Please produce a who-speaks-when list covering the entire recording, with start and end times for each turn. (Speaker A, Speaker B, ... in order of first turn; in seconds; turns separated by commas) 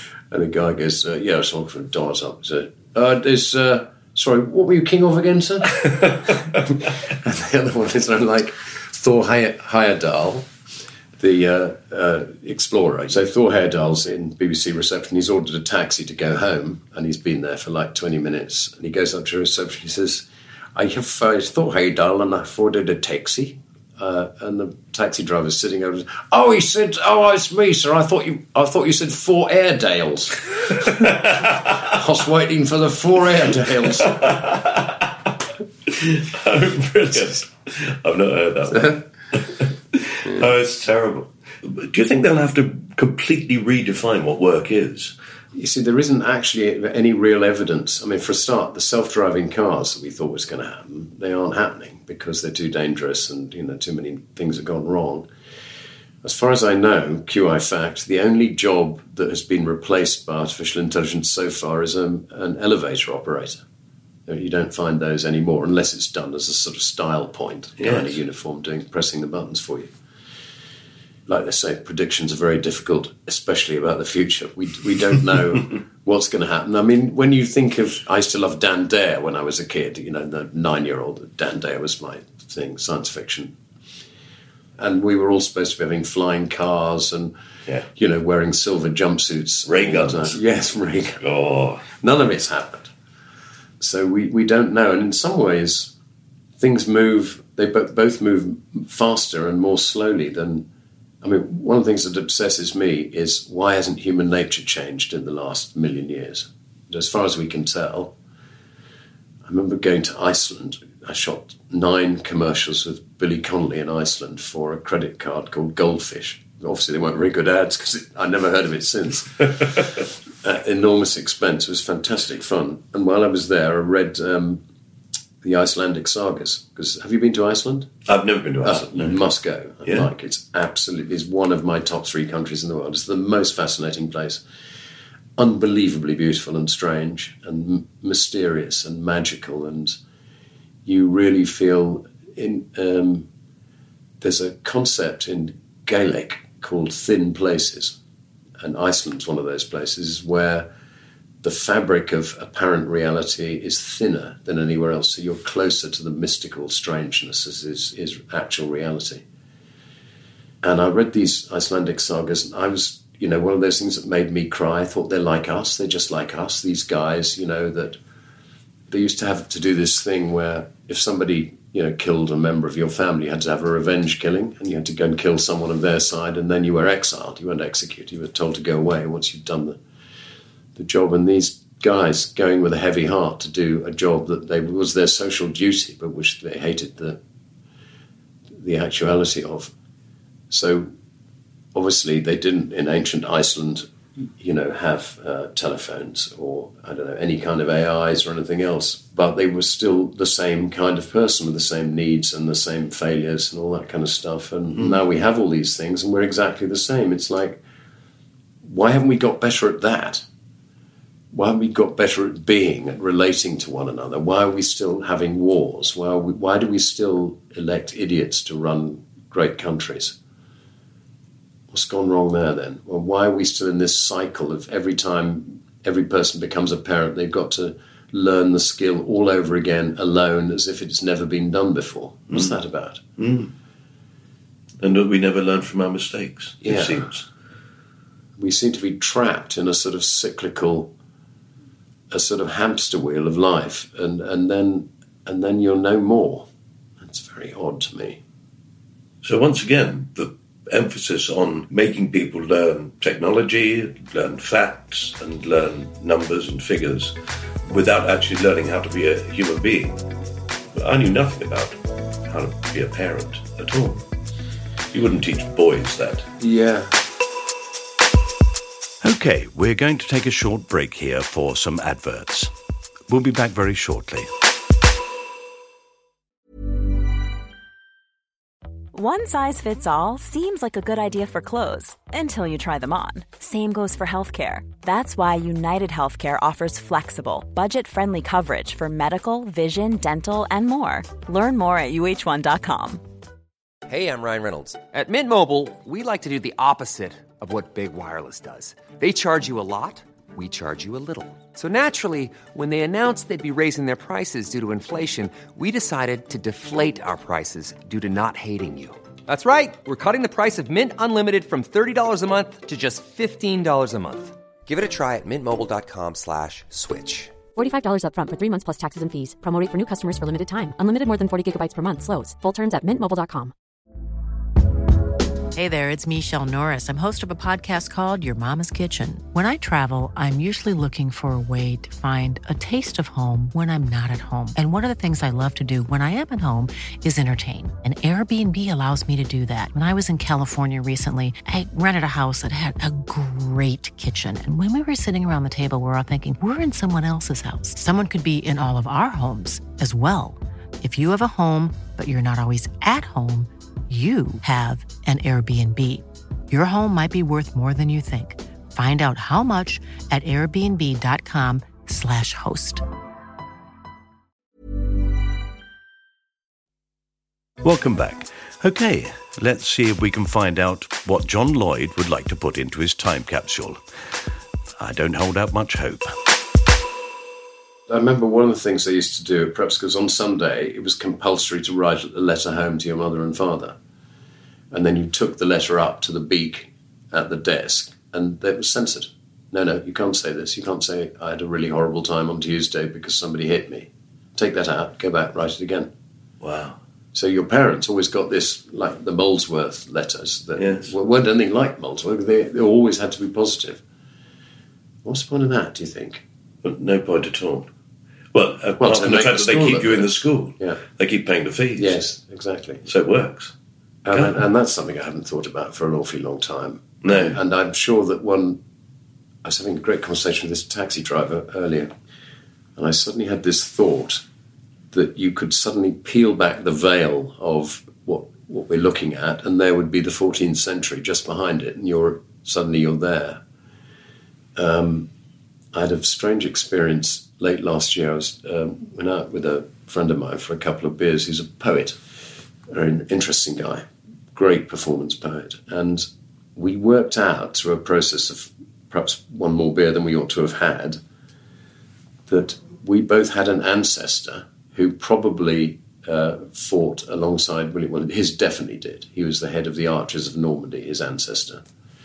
Speaker A: 0.3-10.5, Speaker A: 11.2-34.4, Speaker B: 31.1-31.5, Speaker B: 34.1-35.3, Speaker B: 35.9-45.1, Speaker A: 45.5-55.3, Speaker A: 56.2-63.6, Speaker A: 64.3-69.9, Speaker B: 67.8-68.2, Speaker A: 71.3-83.5, Speaker A: 84.8-87.3, Speaker A: 88.0-91.2, Speaker B: 89.7-90.4, Speaker B: 91.2-91.9, Speaker A: 92.0-92.9, Speaker A: 93.8-95.9, Speaker A: 96.6-100.7, Speaker A: 101.2-108.1, Speaker A: 109.5-119.8, Speaker A: 120.4-124.6, Speaker A: 125.4-127.9, Speaker B: 128.1-129.2, Speaker A: 128.6-134.4, Speaker A: 135.4-140.0, Speaker A: 140.9-143.3, Speaker A: 144.2-148.0, Speaker A: 148.6-150.7, Speaker A: 151.4-159.2, Speaker A: 160.6-168.0, Speaker A: 168.9-179.8, Speaker A: 180.8-187.2, Speaker A: 188.5-189.7, Speaker A: 190.5-190.9, Speaker A: 191.7-207.6, Speaker A: 208.6-210.2, Speaker A: 211.3-220.2, Speaker A: 221.7-233.0, Speaker B: 232.3-232.6, Speaker B: 233.2-233.5, Speaker B: 234.8-237.3, Speaker A: 236.6-237.1, Speaker A: 238.4-240.9, Speaker A: 242.1-246.5, Speaker A: 247.0-248.2, Speaker B: 249.2-257.1, Speaker B: 257.7-260.0, Speaker B: 260.8-264.0, Speaker B: 264.9-266.3, Speaker A: 266.4-267.0, Speaker B: 269.0-272.5, Speaker B: 273.1-274.3, Speaker C: 278.9-293.0, Speaker D: 293.9-317.4, Speaker E: 317.6-323.5, Speaker F: 325.5-362.8, Speaker B: 367.6-373.8, Speaker B: 374.8-376.1, Speaker A: 377.9-383.8, Speaker A: 384.7-395.9, Speaker B: 396.4-396.8, Speaker A: 397.1-403.8, Speaker B: 400.6-400.9, Speaker A: 405.1-406.2, Speaker B: 406.6-407.7, Speaker B: 408.3-412.0, Speaker A: 408.8-410.8, Speaker A: 411.8-412.9, Speaker B: 412.9-413.5, Speaker A: 414.1-418.6, Speaker B: 414.1-414.4, Speaker B: 417.0-417.4, Speaker A: 419.4-421.9, Speaker A: 422.8-424.2, Speaker A: 424.9-433.4, Speaker A: 434.6-435.1, Speaker A: 435.7-442.0, Speaker A: 442.7-451.0, Speaker A: 452.3-461.6